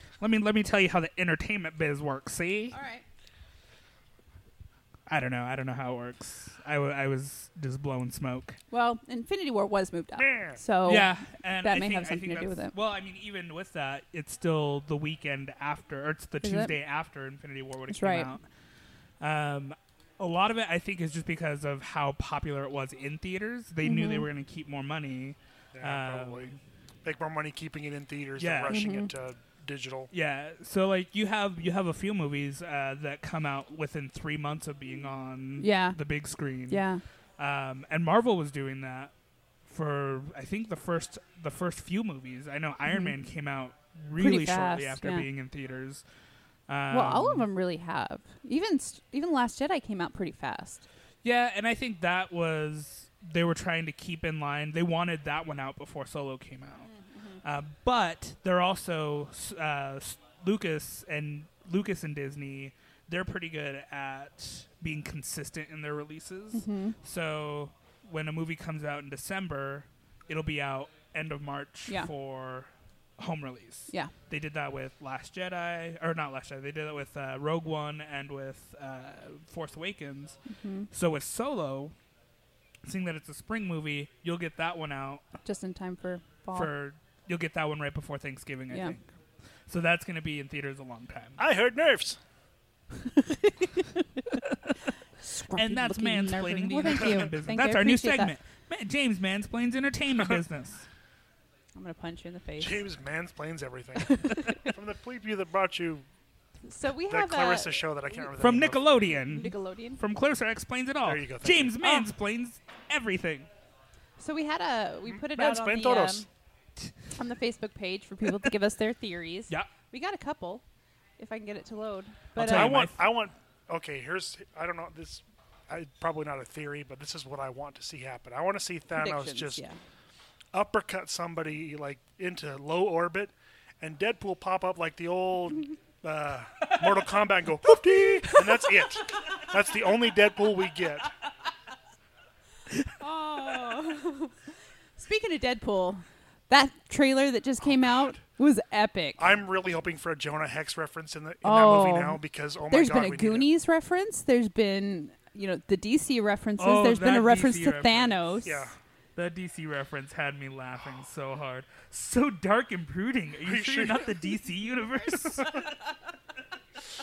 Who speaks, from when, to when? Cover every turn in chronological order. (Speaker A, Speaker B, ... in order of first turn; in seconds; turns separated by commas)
Speaker A: 0.2-2.8, Speaker B: 2.7-3.0, Speaker A: 5.1-8.6, Speaker B: 8.7-12.7, Speaker C: 10.2-10.6, Speaker A: 10.8-18.4, Speaker B: 16.4-16.8, Speaker B: 17.9-18.3, Speaker A: 19.2-26.6, Speaker B: 23.8-24.3, Speaker C: 25.7-26.5, Speaker C: 27.0-30.1, Speaker A: 28.4-28.9, Speaker B: 28.7-29.1, Speaker A: 30.1-36.8, Speaker B: 35.6-36.0, Speaker B: 36.7-37.0, Speaker A: 37.4-39.1, Speaker A: 39.7-46.0, Speaker B: 42.9-43.1, Speaker B: 44.2-45.3, Speaker A: 46.7-47.5, Speaker B: 46.9-50.8, Speaker A: 51.2-56.9, Speaker B: 56.8-57.4, Speaker A: 57.4-80.4, Speaker B: 66.5-67.0, Speaker B: 80.5-80.9, Speaker A: 80.9-81.9, Speaker A: 82.8-85.2, Speaker B: 85.5-86.7, Speaker A: 86.5-89.1, Speaker B: 88.7-89.0, Speaker A: 89.7-91.4, Speaker C: 91.4-92.2, Speaker B: 93.0-94.4, Speaker B: 95.2-98.3, Speaker A: 95.5-100.9, Speaker B: 101.8-102.9, Speaker C: 102.6-106.1, Speaker B: 104.1-104.5, Speaker B: 106.6-108.0, Speaker C: 107.1-108.9, Speaker A: 108.4-113.5, Speaker B: 109.2-110.0, Speaker C: 111.0-111.8, Speaker B: 111.8-112.1, Speaker B: 114.2-116.3, Speaker C: 115.2-116.3, Speaker B: 117.2-120.6, Speaker B: 121.2-122.8, Speaker A: 122.3-123.0, Speaker C: 122.4-129.6, Speaker B: 128.9-129.8, Speaker C: 130.5-141.1, Speaker B: 143.0-144.3, Speaker B: 145.0-149.4, Speaker C: 147.6-148.2, Speaker C: 149.2-153.5, Speaker B: 151.4-158.7, Speaker A: 156.6-158.4, Speaker C: 158.4-158.8, Speaker A: 159.2-165.6, Speaker C: 163.4-164.3